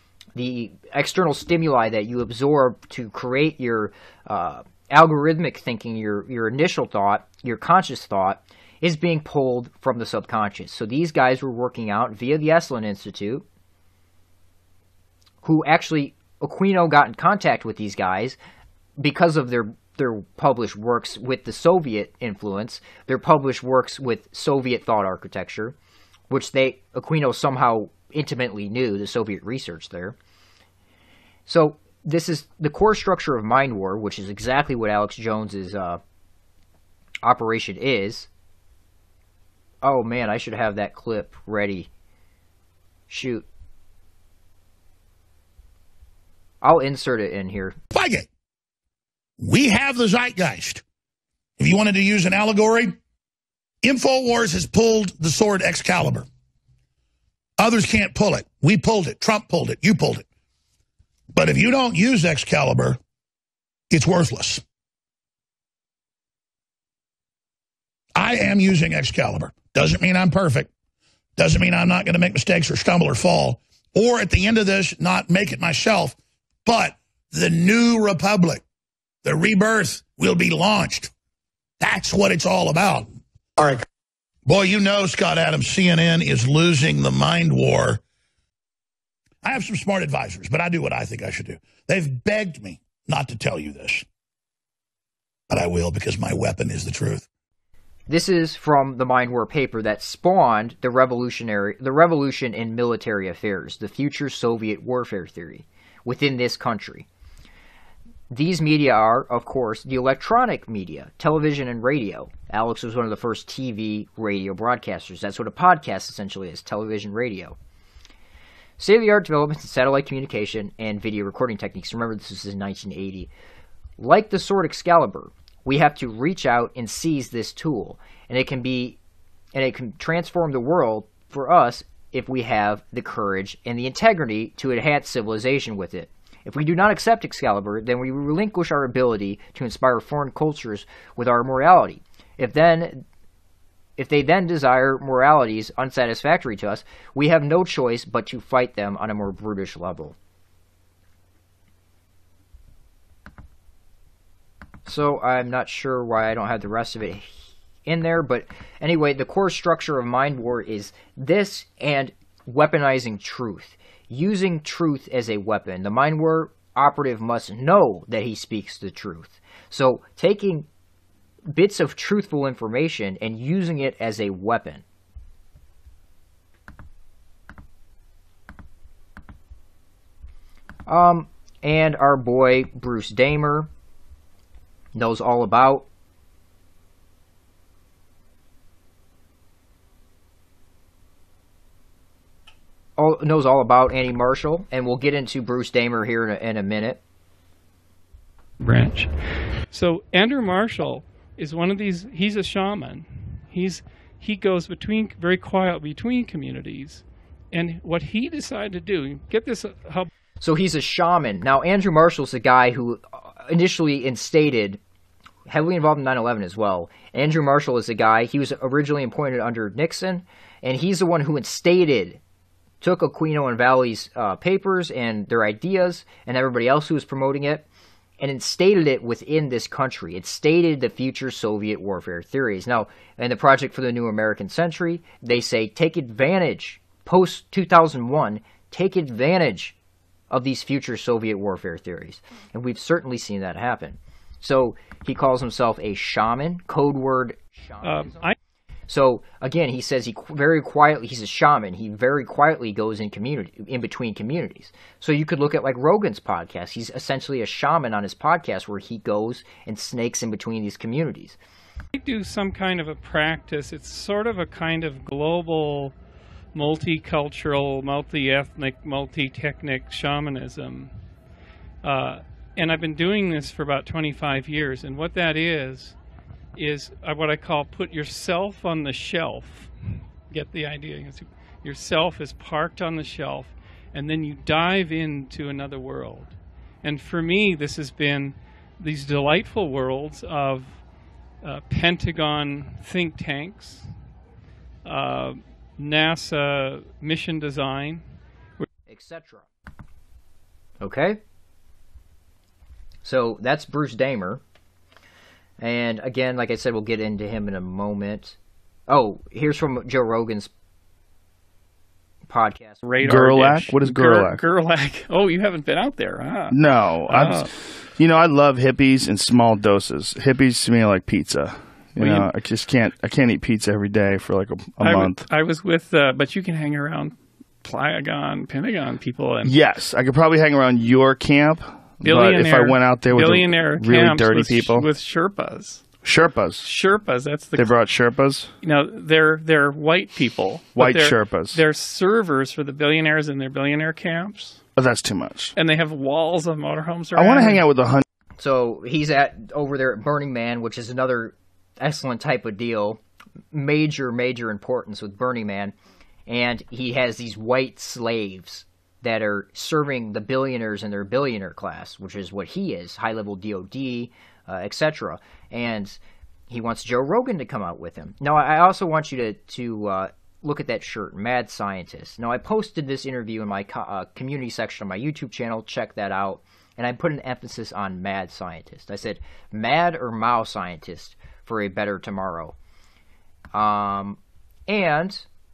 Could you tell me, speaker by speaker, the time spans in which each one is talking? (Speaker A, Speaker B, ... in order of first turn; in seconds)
Speaker A: 0.4-13.4, 15.4-18.4, 19.0-25.8, 26.3-30.1, 31.5-36.0, 37.2-38.3, 39.8-41.9, 43.1-43.5, 46.6-47.8, 98.1-107.1, 108.3-117.6, 118.8-123.3, 124.0-129.0, 129.5-143.0, 144.0-150.2, 154.9-170.7, 171.5-174.8, 180.9-183.7, 184.9-185.9, 193.0-197.0, 210.4-214.8, 215.5-222.2, 222.8-227.7, 228.2-239.7, 240.3-248.3, 248.9-261.4, 298.9-299.5, 300.8-301.2, 303.0-304.4, 305.6-308.4, 308.9-310.5, 312.3-312.8, 348.4-353.0, 353.5-355.7, 356.3-366.0, 366.5-382.6, 383.5-385.3
Speaker B: 47.9-48.3, 49.4-50.8, 51.6-53.0, 53.8-56.3, 57.6-60.2, 61.3-63.0, 63.9-64.6, 68.2-70.7, 71.4-78.6, 79.2-81.1, 81.8-83.8, 84.5-88.0, 89.4-94.0, 95.5-97.3
Speaker C: 198.6-199.2, 199.7-210.1, 247.8-248.3, 261.9-265.9, 266.5-270.9, 271.8-276.0, 276.6-279.7, 280.3-290.8, 291.4-293.9, 294.9-298.1, 312.8-316.6, 317.1-317.5, 322.0-322.3, 324.8-329.6, 332.0-335.9, 336.6-337.7, 338.6-344.6, 345.6-347.6
Speaker D: 313.0-314.4, 316.5-325.2, 329.4-334.9, 336.0-336.7, 337.6-338.5, 340.8-341.6, 344.8-345.6, 347.1-348.0